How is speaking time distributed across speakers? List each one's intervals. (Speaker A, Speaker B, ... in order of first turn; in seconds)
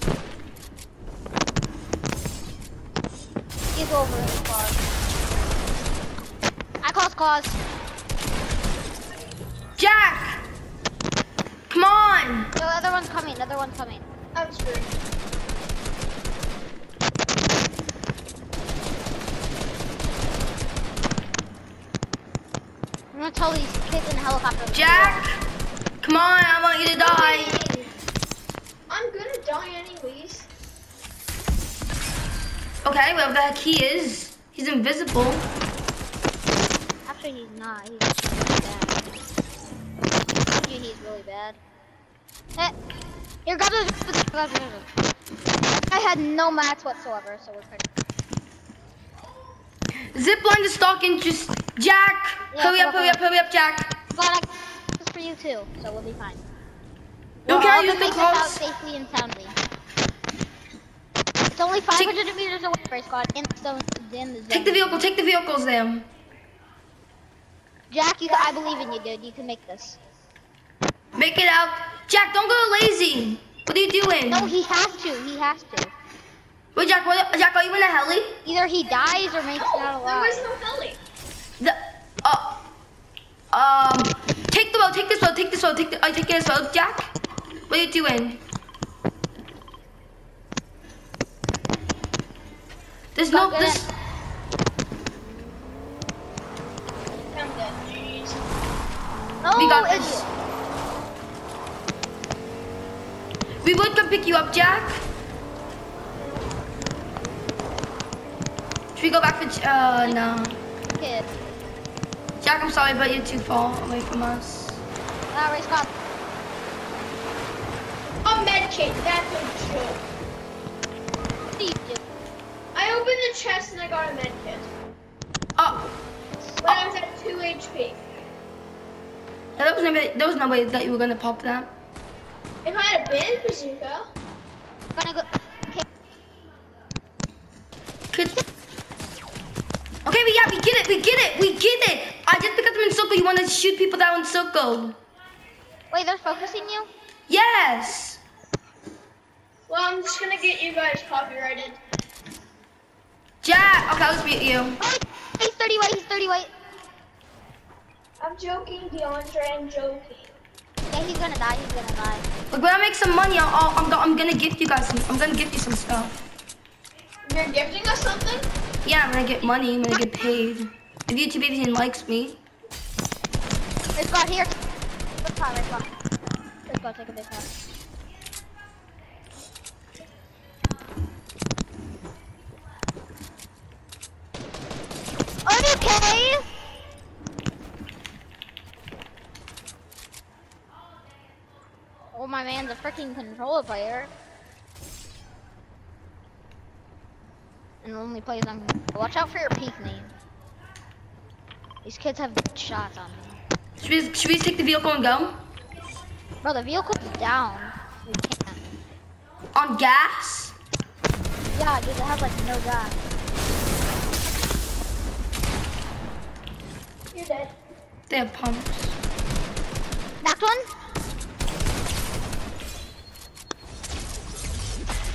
Speaker A: 3.7-4.8, 6.8-7.6, 12.6-14.1, 23.1-25.2, 37.1-39.1, 40.5-41.6, 43.5-44.9, 45.9-47.9, 52.5-53.2, 54.1-56.5, 57.5-59.6, 61.5-65.1, 67.9-70.0, 74.3-75.9, 78.5-80.5, 93.3-93.9, 99.4-100.3, 110.9-111.3, 115.3-115.9, 121.4-122.1, 126.5-126.8, 134.9-135.9, 145.9-146.9, 154.8-156.5, 160.9-162.3, 174.0-174.6, 175.2-175.9, 176.7-177.5, 185.5-186.5, 192.1-194.1, 197.8-200.1, 201.8-203.4, 206.4-208.6, 211.5-213.0, 220.2-220.7
Speaker B: 9.8-10.4, 11.7-12.5, 24.7-25.4, 26.0-27.6, 32.8-35.5, 50.1-53.9, 57.5-58.6, 64.5-66.1, 71.2-74.5, 76.8-78.4, 81.6-82.6, 83.5-87.1, 87.7-88.4, 93.2-93.9, 99.6-100.3, 103.6-105.0, 109.0-110.6, 112.4-114.8, 125.6-125.9, 129.6-131.7, 138.1-138.4, 140.1-145.0, 147.3-148.2, 153.4-154.8, 162.5-166.2, 168.8-172.4, 203.8-205.4, 209.5-210.6, 218.1-219.0
Speaker C: 14.3-15.0, 27.0-27.8, 28.9-30.5, 79.5-81.0, 97.3-98.4, 106.2-106.5, 118.2-120.0, 122.7-124.7, 126.6-128.0, 132.7-134.1, 149.7-151.8, 158.2-160.3, 167.2-168.5, 217.1-217.5